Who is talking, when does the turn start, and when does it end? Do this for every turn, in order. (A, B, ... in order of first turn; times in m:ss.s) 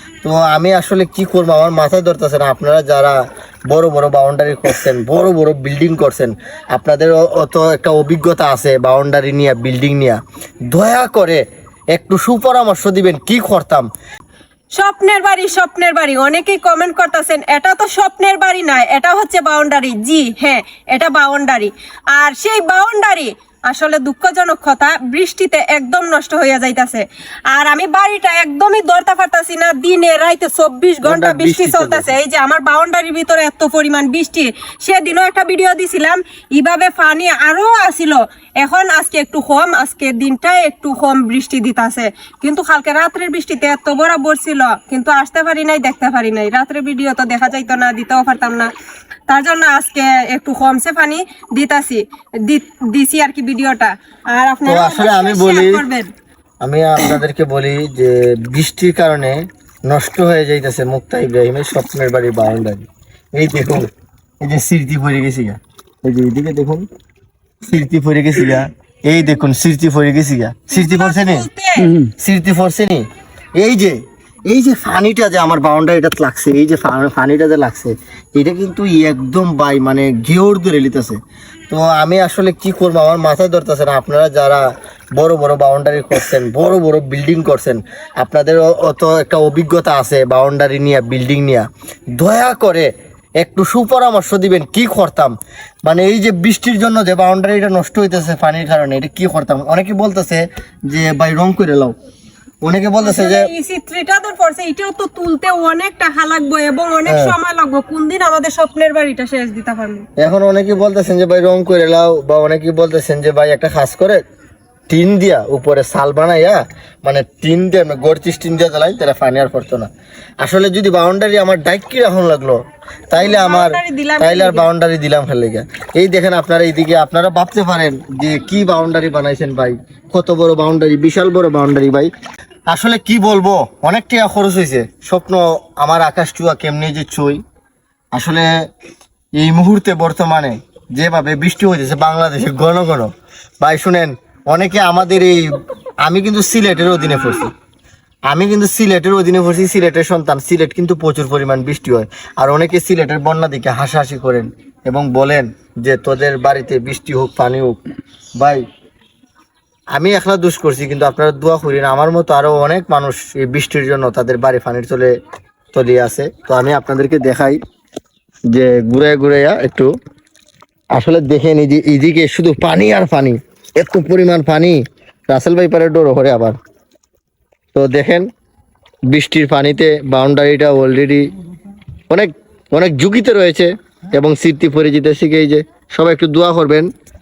0:00.2-0:10.2 A
0:10.7-0:13.9 A
0:14.7-0:48.7 B
0:31.0-0:32.1 A
0:49.3-0:56.1 B
0:54.6-0:55.8 A
0:56.6-1:03.9 A
1:04.4-1:06.8 A
1:07.6-1:13.1 A
1:10.7-1:12.0 B
1:13.6-1:41.9 A
1:42.6-1:43.5 A
1:43.0-1:50.1 B
1:47.1-1:47.3 A
1:50.2-1:54.2 A
1:54.9-1:59.9 A
2:00.4-2:12.1 A
2:03.2-2:04.6 B
2:12.7-2:17.4 A
2:18.1-2:18.5 A
2:19.4-2:27.5 A
2:28.3-2:37.8 A
2:39.9-2:45.1 A
2:45.7-2:47.6 A
2:48.5-2:49.9 A
2:50.9-2:56.6 A
2:57.7-2:58.3 A
2:59.1-3:01.2 A
3:02.1-3:06.9 A